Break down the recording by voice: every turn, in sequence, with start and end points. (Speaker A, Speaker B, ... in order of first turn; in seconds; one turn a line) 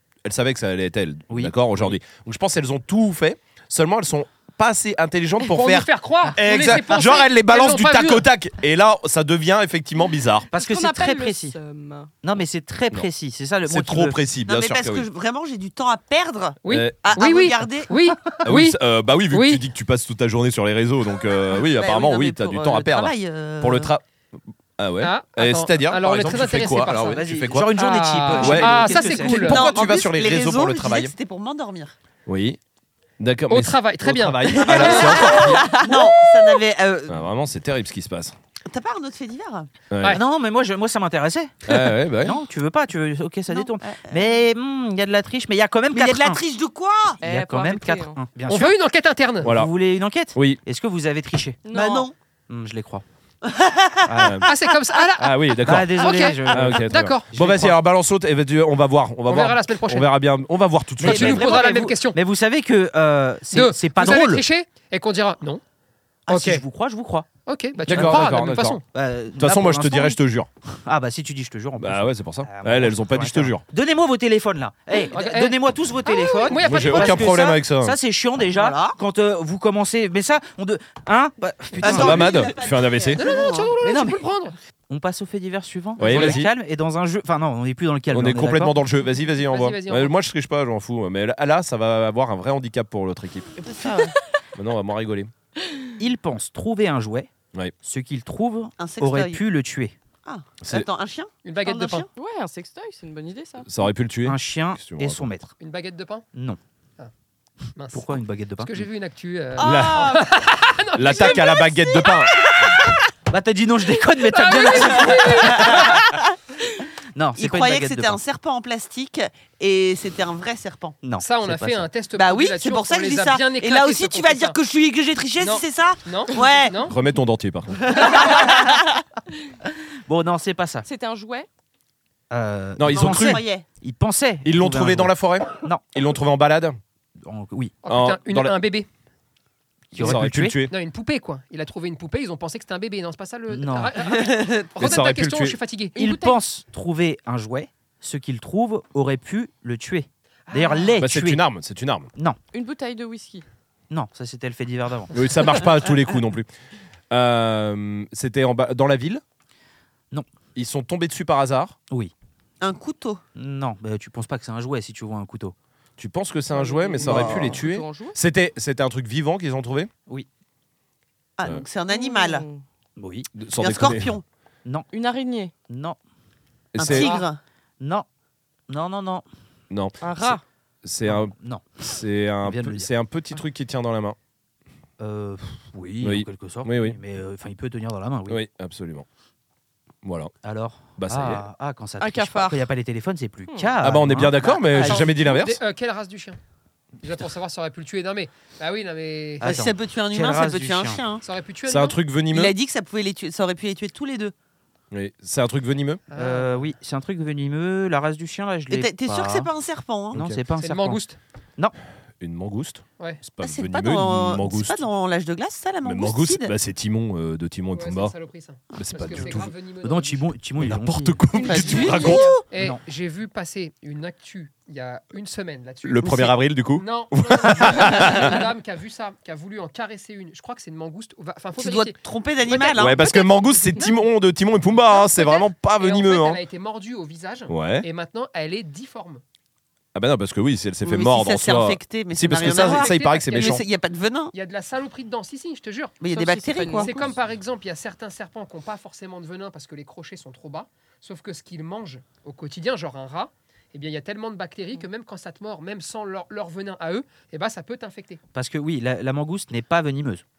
Speaker A: 0.2-10.5
Speaker B: 1.3-1.6
Speaker C: 5.4-8.2
Speaker B: 10.5-11.6
Speaker D: 10.5-12.1
Speaker B: 12.2-14.2
Speaker A: 13.7-15.1
Speaker E: 14.4-18.0
Speaker C: 16.6-18.8
Speaker A: 16.7-17.0
Speaker A: 18.4-24.0
Speaker C: 19.3-19.6
Speaker E: 21.6-23.9
Speaker A: 24.8-27.7
Speaker C: 25.0-27.2
Speaker B: 26.9-29.6
Speaker C: 27.7-29.7
Speaker A: 28.4-31.1
Speaker E: 29.4-31.9
Speaker A: 32.2-32.6
Speaker A: 33.2-35.7
Speaker C: 33.5-35.5
Speaker E: 34.5-37.3
Speaker D: 35.3-36.5
Speaker A: 37.1-38.3
Speaker E: 38.7-39.7
Speaker A: 39.9-40.2
Speaker B: 40.1-46.4
Speaker A: 41.7-42.4
Speaker E: 43.5-44.4
Speaker E: 45.9-47.2
Speaker D: 47.2-48.2
Speaker B: 47.2-48.8
Speaker C: 48.5-49.5
Speaker A: 49.4-49.7
Speaker B: 49.4-51.6
Speaker A: 50.3-50.6
Speaker D: 51.6-52.1
Speaker E: 51.7-52.1
Speaker B: 52.5-53.0
Speaker E: 53.4-54.6
Speaker B: 54.0-54.4
Speaker A: 54.1-54.5
Speaker C: 54.5-57.3
Speaker A: 55.2-61.6
Speaker B: 55.6-57.8
Speaker C: 59.3-60.1
Speaker B: 61.0-64.4
Speaker C: 61.0-62.2
Speaker C: 63.5-65.6
Speaker B: 66.3-67.3
Speaker C: 66.3-66.6
Speaker C: 67.5-68.8
Speaker B: 67.9-68.3
Speaker A: 67.9-68.8
Speaker B: 68.9-82.4
Speaker A: 69.4-70.5
Speaker A: 71.8-73.6
Speaker C: 75.1-77.4
Speaker A: 76.6-78.0
Speaker E: 78.5-79.0
Speaker E: 81.8-83.7
Speaker A: 81.8-83.2
Speaker C: 83.2-84.5
Speaker B: 83.8-84.2
Speaker B: 84.9-88.8
Speaker A: 86.0-86.5
Speaker A: 88.1-93.5
Speaker C: 89.5-90.1
Speaker E: 93.6-94.1
Speaker D: 93.6-94.2
Speaker A: 94.5-95.3
Speaker B: 96.0-97.3
Speaker B: 97.8-99.9
Speaker E: 98.8-99.4
Speaker E: 100.2-102.1
Speaker A: 100.6-100.9
Speaker C: 101.4-102.1
Speaker D: 102.2-103.7
Speaker A: 103.6-105.3
Speaker B: 104.2-105.5
Speaker C: 105.6-106.2
Speaker C: 107.8-112.7
Speaker B: 107.9-108.9
Speaker A: 109.6-110.2
Speaker D: 109.6-110.0
Speaker A: 110.9-112.7
Speaker B: 113.3-116.0
Speaker C: 114.2-116.0
Speaker E: 115.6-116.3
Speaker B: 117.1-118.2
Speaker E: 117.4-121.0
Speaker B: 121.0-121.9
Speaker C: 121.2-124.6
Speaker E: 122.1-126.9
Speaker C: 125.4-126.9
Speaker A: 126.8-127.8
Speaker E: 127.8-129.0
Speaker B: 130.1-130.9
Speaker D: 130.8-131.5
Speaker B: 132.3-135.8
Speaker A: 132.8-133.4
Speaker E: 132.9-133.6
Speaker A: 134.4-136.8
Speaker B: 137.2-137.7
Speaker C: 137.8-138.9
Speaker A: 137.9-138.5
Speaker B: 139.9-140.6
Speaker A: 140.0-140.7
Speaker C: 140.0-146.0
Speaker B: 143.5-143.9
Speaker E: 144.0-144.7
Speaker A: 144.8-145.6
Speaker D: 145.9-146.4
Speaker B: 145.9-151.4
Speaker C: 150.5-151.0
Speaker A: 151.0-152.1
Speaker D: 152.5-153.4
Speaker B: 153.9-155.1
Speaker A: 155.1-156.5
Speaker A: 157.1-159.2
Speaker A: 160.5-161.8
Speaker E: 162.6-163.2
Speaker B: 163.3-165.5
Speaker A: 166.0-169.9
Speaker D: 166.5-168.2
Speaker E: 167.0-167.5
Speaker E: 171.4-172.4
Speaker D: 171.9-172.6
Speaker B: 173.0-173.3
Speaker A: 173.3-174.1
Speaker E: 173.6-174.2
Speaker D: 174.9-175.5
Speaker B: 175.7-176.0
Speaker A: 176.7-177.1
Speaker E: 176.8-177.4
Speaker B: 177.8-178.1
Speaker B: 178.7-179.2
Speaker A: 179.7-184.2
Speaker D: 180.0-180.4
Speaker B: 181.1-181.7
Speaker B: 182.4-182.9
Speaker B: 185.0-188.4
Speaker A: 186.0-187.0
Speaker A: 188.3-189.1
Speaker A: 190.0-190.3
Speaker B: 190.4-195.0
Speaker A: 191.0-191.4
Speaker D: 192.0-192.7
Speaker D: 193.5-193.7
Speaker A: 193.8-195.6
Speaker C: 194.8-196.4
Speaker C: 197.0-199.5
Speaker B: 199.4-201.0
Speaker E: 199.4-201.2
Speaker C: 201.2-202.0
Speaker A: 201.7-202.5
Speaker E: 202.3-204.3
Speaker A: 204.9-206.0
Speaker C: 206.1-206.6
Speaker B: 206.2-209.5
Speaker E: 208.7-210.2
Speaker B: 210.1-211.0
Speaker A: 210.1-210.4
Speaker C: 210.6-211.2
Speaker A: 212.2-214.8
Speaker E: 213.4-216.5
Speaker A: 215.8-218.1
Speaker C: 217.7-220.3
Speaker A: 218.8-219.5
Speaker B: 219.8-221.2
Speaker A: 220.6-222.3
Speaker D: 221.3-222.3
Speaker E: 221.4-222.4
Speaker C: 222.5-233.0
Speaker B: 222.6-222.8
Speaker A: 225.8-228.4
Speaker E: 226.0-226.3
Speaker E: 231.6-233.8
Speaker A: 232.8-236.4
Speaker C: 235.7-239.2
Speaker A: 237.5-237.9
Speaker A: 239.9-243.6
Speaker E: 240.8-244.3
Speaker D: 242.6-242.8
Speaker C: 242.8-243.2
Speaker C: 244.3-245.9
Speaker E: 246.0-246.9
Speaker D: 246.1-247.1
Speaker C: 246.8-258.2
Speaker B: 258.3-260.2